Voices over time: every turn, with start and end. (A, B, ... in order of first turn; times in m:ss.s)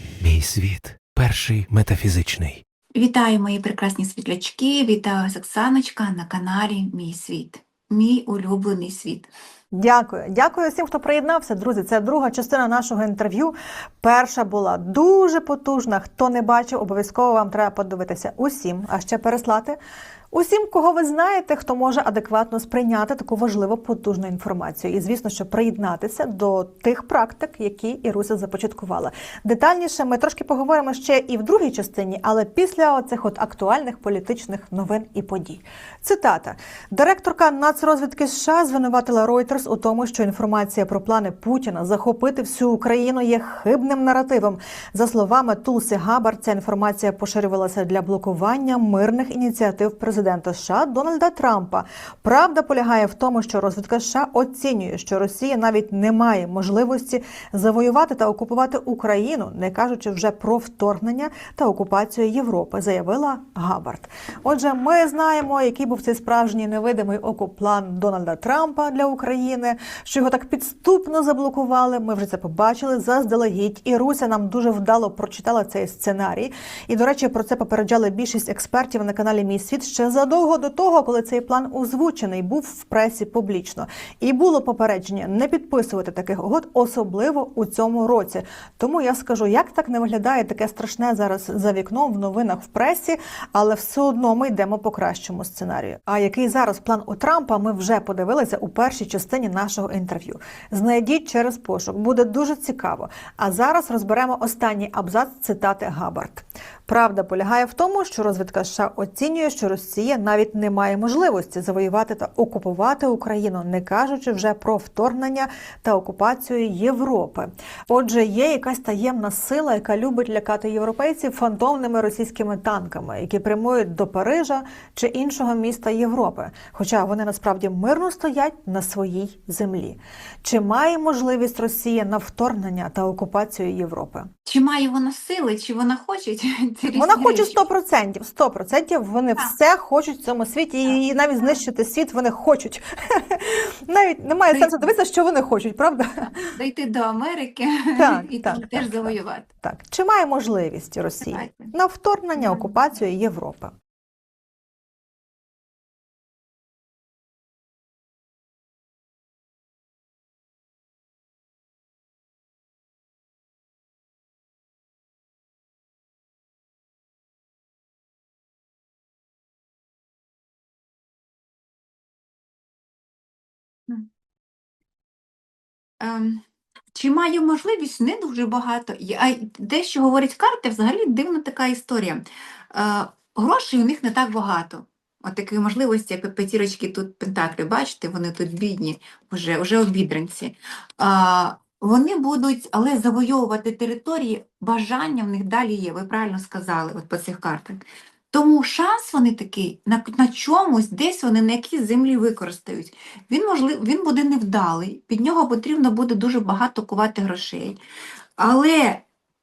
0:00.2-0:02.6 A
0:03.0-0:09.3 B
0:09.7-0:19.8 C
0:20.3-2:14.3 C
2:14.4-2:17.6 B
2:16.9-2:26.5 C
2:24.5-2:24.9 B
2:26.5-2:29.5 B
2:28.0-2:33.7 C
2:31.2-2:31.7 B
2:32.4-2:32.7 B
2:56.0-2:56.4 B
2:56.9-3:27.8 B
3:28.4-3:29.0 B